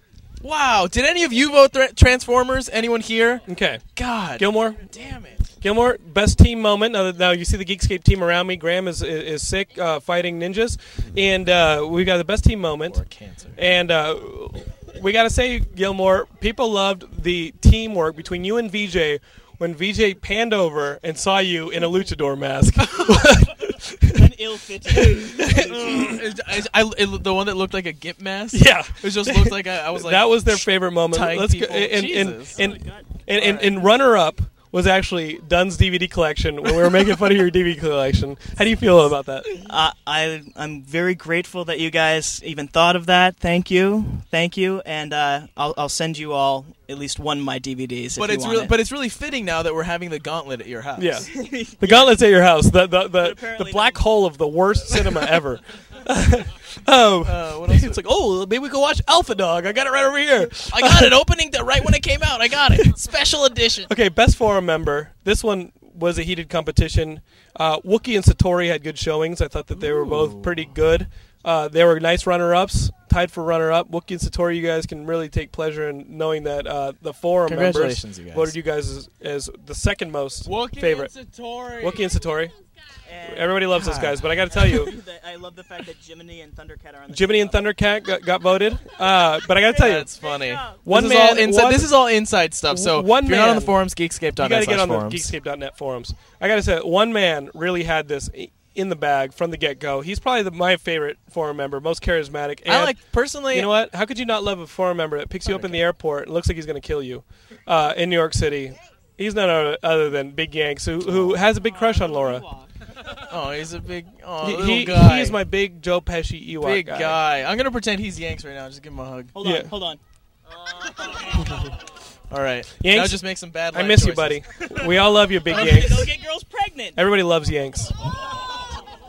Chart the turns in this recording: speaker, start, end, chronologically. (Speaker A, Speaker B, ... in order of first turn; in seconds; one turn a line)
Speaker A: 0.4-3.4
Speaker B: 3.5-3.8
Speaker A: 4.0-5.4
Speaker B: 4.4-4.8
Speaker B: 5.6-13.0
Speaker A: 12.9-13.6
Speaker B: 13.6-24.2
Speaker C: 24.1-26.2
Speaker B: 24.9-26.2
Speaker A: 25.6-32.6
Speaker B: 28.5-39.6
Speaker C: 32.6-33.2
Speaker A: 33.4-33.7
Speaker C: 39.7-48.7
Speaker A: 48.2-51.3
Speaker B: 51.0-51.3
Speaker C: 51.3-52.2
Speaker B: 51.8-61.1
Speaker C: 53.2-54.0
Speaker A: 57.2-58.0
Speaker A: 60.7-63.9
Speaker B: 63.9-81.1
Speaker A: 69.8-70.7
Speaker A: 77.5-78.5
Speaker A: 80.5-82.0
Speaker B: 81.8-82.5
Speaker C: 83.1-83.6
Speaker B: 83.3-84.9
Speaker A: 83.7-84.2
Speaker C: 84.5-87.6
Speaker B: 87.1-90.1
Speaker A: 89.7-95.3
Speaker C: 90.2-90.8
Speaker B: 90.8-91.9
Speaker B: 92.7-93.8
Speaker B: 94.4-103.0
Speaker A: 102.7-103.7
Speaker B: 103.5-112.5
Speaker A: 105.5-105.8
Speaker A: 111.1-111.3
Speaker C: 111.6-112.7
Speaker A: 113.3-115.4
Speaker B: 114.4-117.2
Speaker A: 116.6-119.3
Speaker C: 119.3-120.0
Speaker B: 119.4-119.7
Speaker C: 120.8-121.6
Speaker A: 122.3-124.4
Speaker B: 122.8-126.1
Speaker C: 125.5-127.0
Speaker A: 125.6-126.0
Speaker B: 127.0-127.9